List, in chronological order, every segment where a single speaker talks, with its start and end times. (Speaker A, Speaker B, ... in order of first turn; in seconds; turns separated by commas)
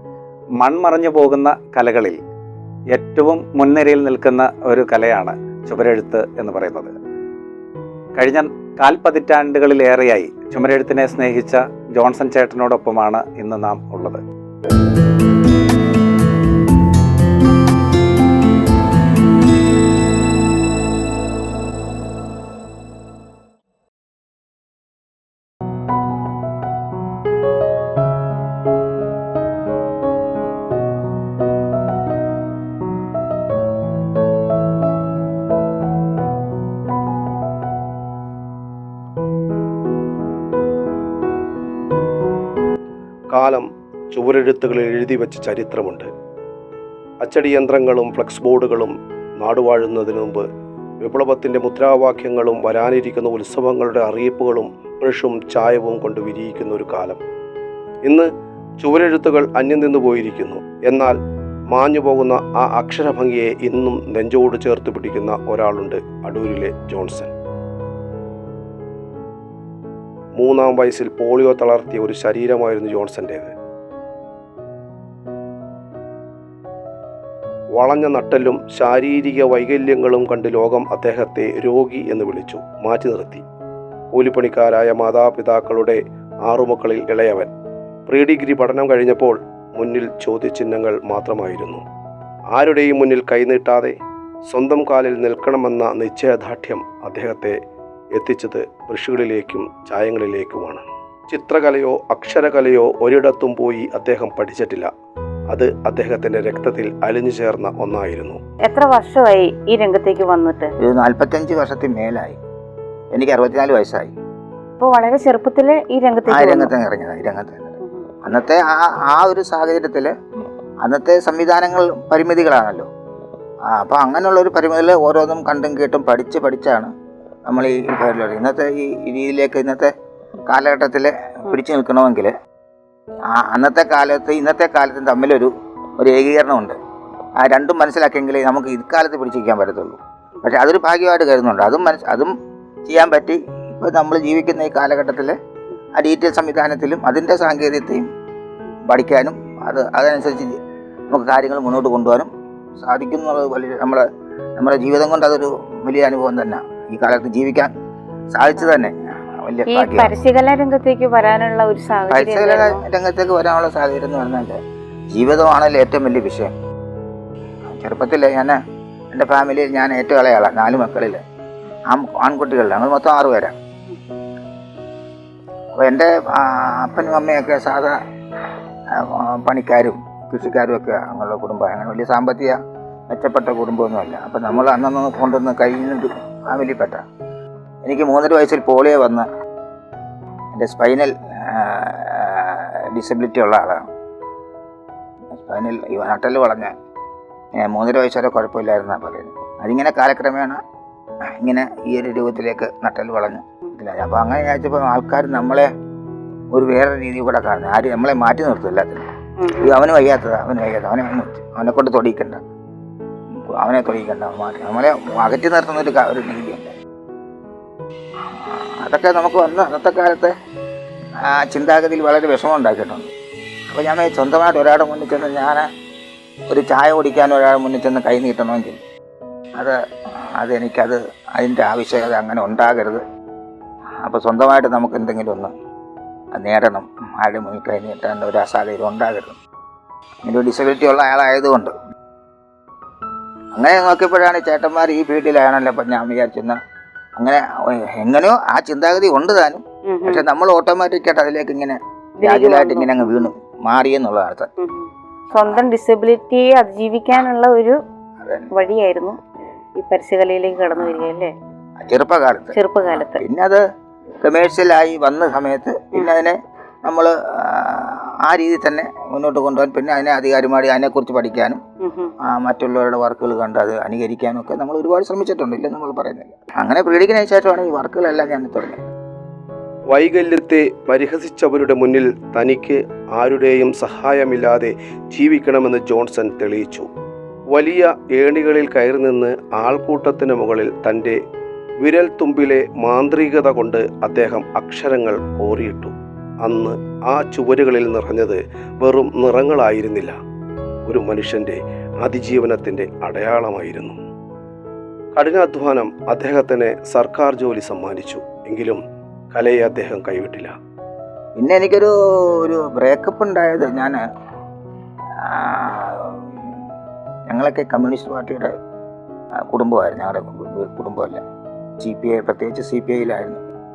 Speaker A: 0.6-2.2, Speaker A: 2.9-6.9, Speaker A: 8.2-14.2, Speaker B: 43.3-46.1, Speaker B: 47.2-50.4, Speaker B: 51.0-57.2, Speaker B: 58.8-61.2, Speaker B: 61.7-67.3, Speaker B: 70.4-73.5, Speaker B: 77.8-83.4, Speaker B: 84.1-87.5, Speaker B: 88.1-91.8, Speaker B: 92.5-94.0, Speaker B: 94.5-97.6, Speaker B: 98.2-104.9, Speaker B: 105.5-108.4, Speaker C: 108.7-110.7, Speaker D: 110.8-112.4, Speaker D: 113.1-114.1, Speaker C: 114.8-116.7, Speaker D: 116.3-120.1, Speaker C: 117.8-118.1, Speaker D: 120.8-122.9, Speaker D: 123.7-126.9, Speaker D: 127.5-129.9, Speaker D: 130.5-132.3, Speaker D: 133.3-136.8, Speaker D: 137.4-142.3, Speaker D: 142.9-145.4, Speaker D: 146.0-148.1, Speaker D: 148.9-150.6, Speaker D: 151.1-154.0, Speaker D: 154.6-157.7, Speaker D: 158.3-160.2, Speaker C: 159.7-162.8, Speaker D: 162.1-164.6, Speaker D: 165.1-166.5, Speaker D: 167.7-168.6, Speaker D: 169.1-171.2, Speaker D: 171.9-173.6, Speaker D: 175.8-178.0, Speaker D: 178.9-182.6, Speaker D: 183.1-187.0, Speaker D: 187.8-189.3, Speaker D: 190.6-193.8, Speaker D: 195.4-196.7, Speaker D: 197.6-200.6, Speaker D: 201.4-205.7, Speaker D: 206.5-209.0, Speaker C: 209.4-209.7, Speaker D: 209.6-212.4, Speaker D: 213.5-216.7, Speaker D: 218.3-220.3, Speaker D: 221.2-223.1, Speaker D: 223.7-225.7, Speaker D: 226.5-228.8, Speaker D: 229.6-233.0, Speaker D: 234.0-235.5, Speaker D: 236.3-239.4, Speaker D: 240.2-241.7, Speaker D: 243.6-246.6, Speaker D: 247.2-254.5, Speaker C: 249.9-250.2, Speaker C: 252.2-253.3, Speaker C: 254.6-257.8, Speaker D: 258.2-258.5, Speaker C: 258.5-259.2, Speaker C: 259.8-261.3, Speaker D: 261.8-263.6, Speaker C: 262.5-263.2, Speaker D: 264.2-271.6, Speaker C: 271.8-272.1, Speaker D: 272.2-278.9, Speaker B: 279.9-286.9, Speaker B: 287.5-291.2, Speaker B: 291.8-300.1, Speaker B: 300.9-304.0, Speaker B: 305.1-308.8, Speaker B: 309.3-310.5, Speaker D: 311.4-314.0, Speaker D: 315.2-316.3, Speaker D: 317.3-318.5, Speaker D: 319.5-321.2, Speaker D: 321.8-323.4